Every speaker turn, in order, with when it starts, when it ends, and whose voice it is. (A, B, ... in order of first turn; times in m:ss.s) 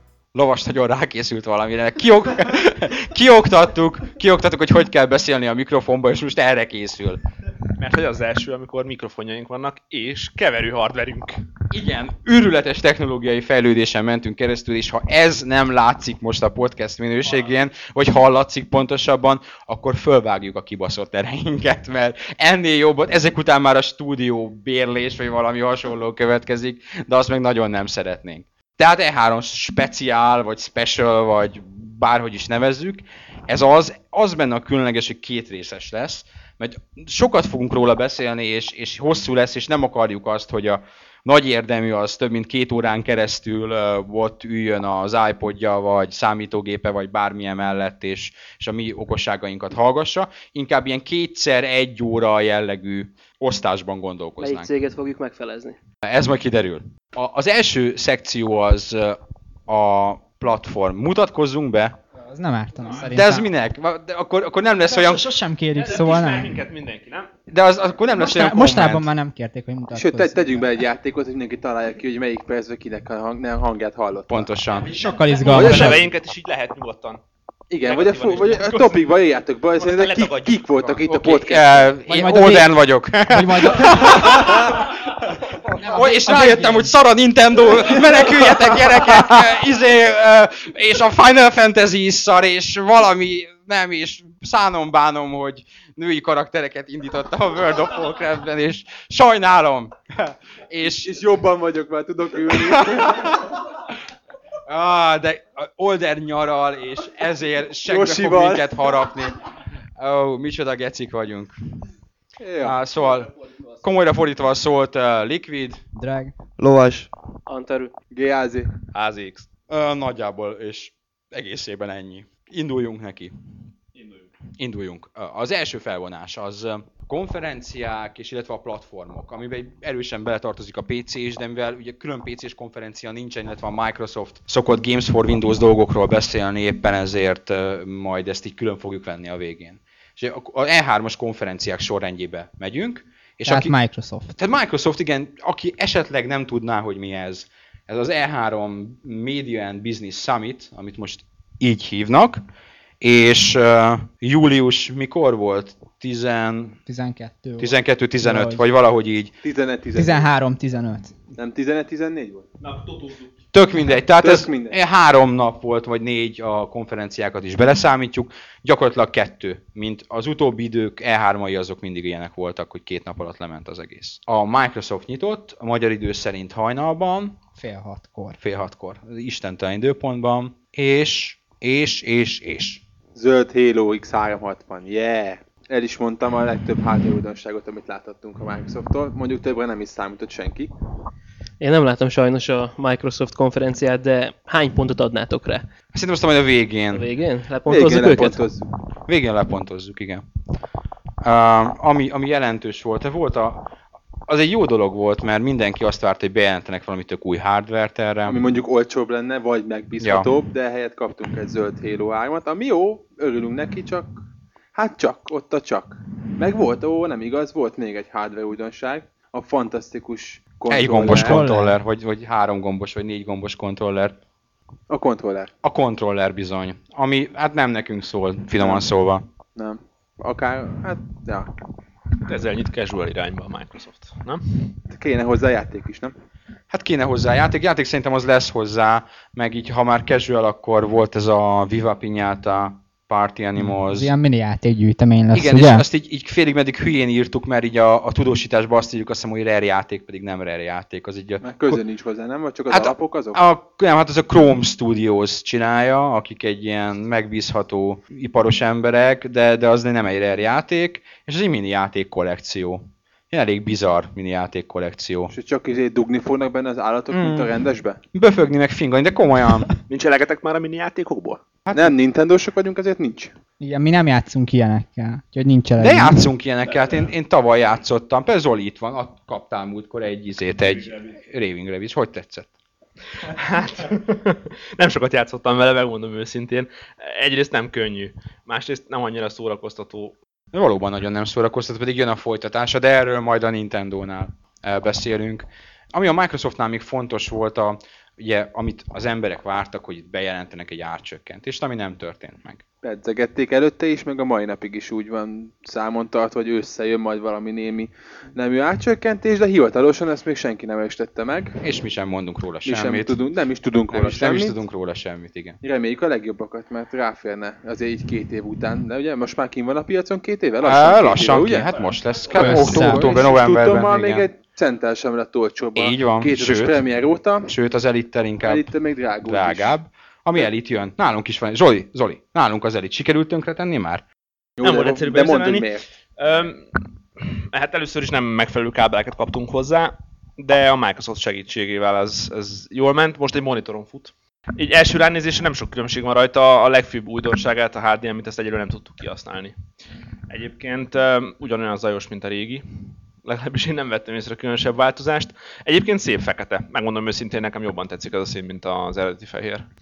0:00.3-0:07.2 A
0:07.8-0:11.4 B
0:11.7-0:54.7 A
0:54.4-0:55.8 C
0:56.0-1:02.0 A
1:02.2-1:03.5 D
1:03.1-1:05.3 A
1:04.9-1:05.2 B
1:05.2-1:06.6 D
1:05.7-1:07.3 B
1:07.5-1:09.1 A
1:08.2-1:10.7 D
1:09.9-1:14.5 E
1:14.3-1:16.0 A
1:15.0-1:16.0 D
1:15.4-1:17.2 B
1:15.5-1:15.9 E
1:17.7-1:21.9 E
1:17.8-1:19.0 B
1:19.8-1:20.5 B
1:20.8-1:41.2 A
1:22.1-1:24.7 D
1:25.8-1:26.9 D
1:41.0-1:43.4 E
1:42.5-1:43.6 A
1:44.7-1:49.4 A
1:47.8-1:48.9 E
1:50.0-1:51.5 A
1:52.4-1:52.8 E
1:52.6-1:55.8 A
1:56.0-1:56.4 D
1:56.6-1:57.1 B
1:57.5-1:57.9 C
1:58.1-1:58.7 E
1:58.9-2:03.3 A
2:04.6-2:23.7 A
2:23.5-2:24.4 D
2:24.4-2:32.4 A
2:33.0-2:36.8 A
2:36.9-2:38.6 D
2:37.6-2:39.4 A
2:39.4-2:40.3 E
2:40.0-2:41.1 D
2:41.4-2:42.5 E
2:42.6-2:43.4 B
2:43.5-2:57.4 A
2:44.2-2:44.8 E
2:57.6-2:58.4 D
2:58.4-3:02.8 A
3:03.2-3:10.7 E
3:11.6-3:15.7 C
3:15.9-3:17.1 A
3:16.9-3:18.4 C
3:17.7-3:18.7 E
3:17.9-3:18.3 B
3:19.1-3:20.2 A
3:21.2-3:23.7 A
3:24.3-3:28.4 A
3:28.3-3:34.1 E
3:30.0-3:30.3 A
3:34.8-3:41.4 E
3:40.7-3:44.2 A
3:41.0-3:41.8 D
3:44.9-3:45.5 E
3:45.6-3:49.3 A
3:48.6-3:48.9 E
3:49.6-3:51.5 E
3:52.3-3:54.7 B
3:54.9-3:56.1 E
3:56.7-4:04.1 A
4:03.7-4:05.8 D
4:05.3-4:11.8 A
4:11.4-4:13.4 E
4:12.7-4:25.3 A
4:25.3-4:28.0 E
4:27.1-4:27.5 A
4:28.1-4:29.7 A
4:29.8-4:31.4 B
4:31.7-4:31.9 A
4:31.7-4:33.4 E
4:33.6-4:36.3 D
4:35.8-4:42.5 A
4:43.2-4:50.2 B
4:50.5-5:02.6 A
5:02.8-5:11.6 E
5:11.6-5:13.2 A
5:12.6-5:14.6 E
5:13.9-5:15.6 A
5:15.6-5:27.5 E
5:20.6-5:24.2 A
5:22.3-5:23.1 D
5:25.8-5:26.8 A
5:27.5-5:28.6 A
5:28.4-5:29.8 E
5:29.2-5:34.0 A
5:34.6-5:35.9 E
5:34.6-5:49.6 B
5:50.3-5:59.7 B